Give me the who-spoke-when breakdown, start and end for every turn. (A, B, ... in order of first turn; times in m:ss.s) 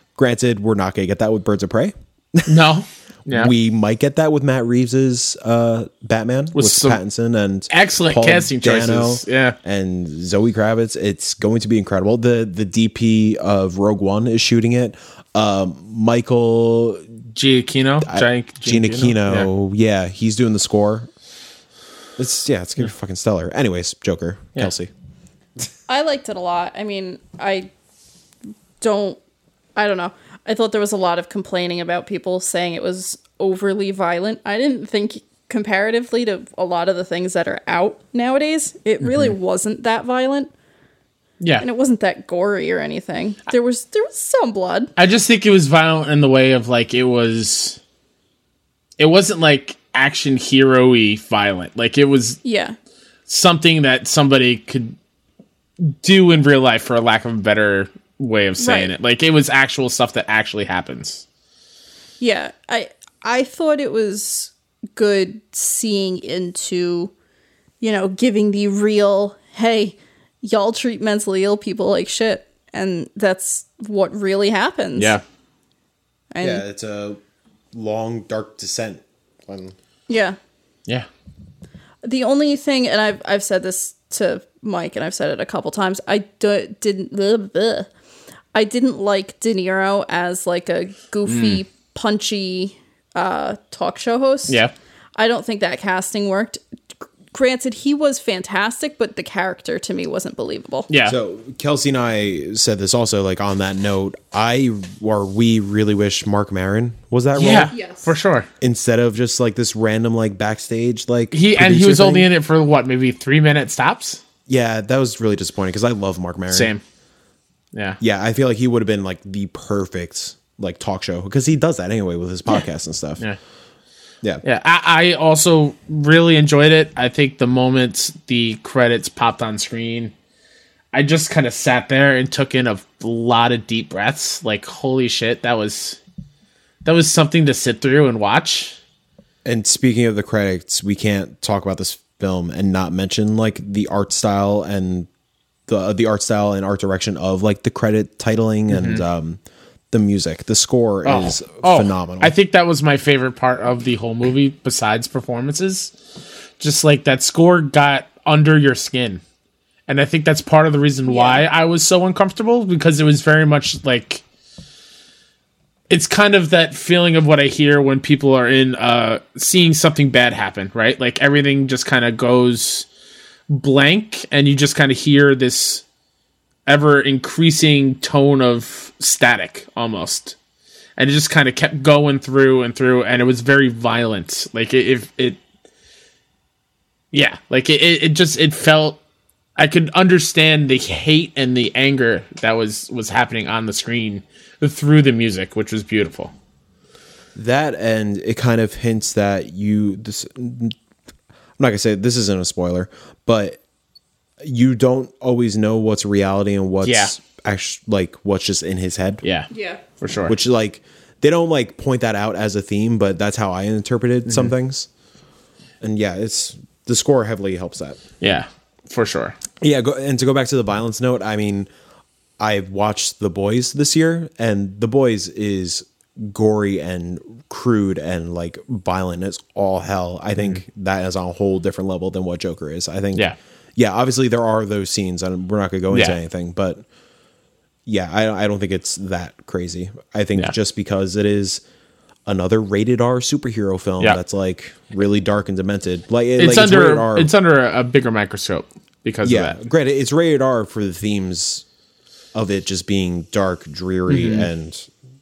0:00.2-0:02.6 A
0:02.4-0:03.5 B
0:03.3-0:17.0 A
0:06.5-0:07.0 B
0:07.7-0:09.6 B
0:17.3-0:19.5 B
0:18.0-0:21.1 A
0:22.2-0:24.9 A
0:25.9-0:27.7 C
0:28.8-0:29.2 C
0:29.8-0:40.5 C
0:41.4-0:41.6 B
0:41.6-0:44.9 C
0:45.0-0:47.8 B
0:49.0-0:52.4 B
0:52.4-0:52.7 C
0:53.3-0:54.9 B
0:55.8-1:01.2 B
0:58.6-0:58.9 C
1:02.2-1:07.1 C
1:07.8-1:15.2 C
1:16.3-1:16.6 C
1:16.4-1:17.2 A
1:17.7-1:19.7 A
1:20.1-1:20.4 C
1:22.0-1:27.9 C
1:28.5-1:34.6 C
1:31.2-1:31.6 B
1:34.5-1:34.7 B
1:35.2-1:36.6 C
1:37.3-1:40.9 C
1:40.9-1:41.2 B
1:41.0-1:47.7 A
1:47.4-1:48.5 B
1:47.7-1:48.1 C
1:48.6-1:52.3 A
1:51.3-1:54.2 B
1:54.5-1:56.7 A
1:56.5-1:56.8 B
1:57.7-1:58.0 B
1:58.0-2:03.2 A
2:04.4-2:10.1 B
2:10.9-2:16.0 B
2:16.8-2:18.8 B
2:19.4-2:25.1 A
2:25.7-2:29.4 A
2:28.7-2:29.0 B
2:29.9-2:32.3 A
2:31.0-2:35.9 B
2:36.6-2:39.2 B
2:39.9-2:44.2 B
2:41.1-2:41.4 C
2:45.9-2:52.8 B
2:53.5-2:55.8 B
2:56.6-3:00.4 B
3:01.0-3:05.4 B
3:07.1-3:09.0 B
3:09.6-3:16.3 B
3:17.4-3:20.7 A
3:21.6-3:23.6 A
3:24.4-3:29.2 A
3:26.8-3:27.1 B
3:29.2-3:29.5 B
3:29.5-3:29.8 C
3:30.0-3:30.3 B
3:30.2-3:34.9 A
3:34.3-3:34.5 B
3:35.8-3:38.0 A
3:38.2-3:39.4 B
3:39.6-3:41.7 A
3:42.4-3:56.8 A
3:55.9-3:56.2 B
3:57.8-4:01.6 A
4:02.2-4:07.3 A
4:06.4-4:09.6 B
4:09.2-4:11.6 A
4:12.3-4:14.9 A
4:14.1-4:14.5 B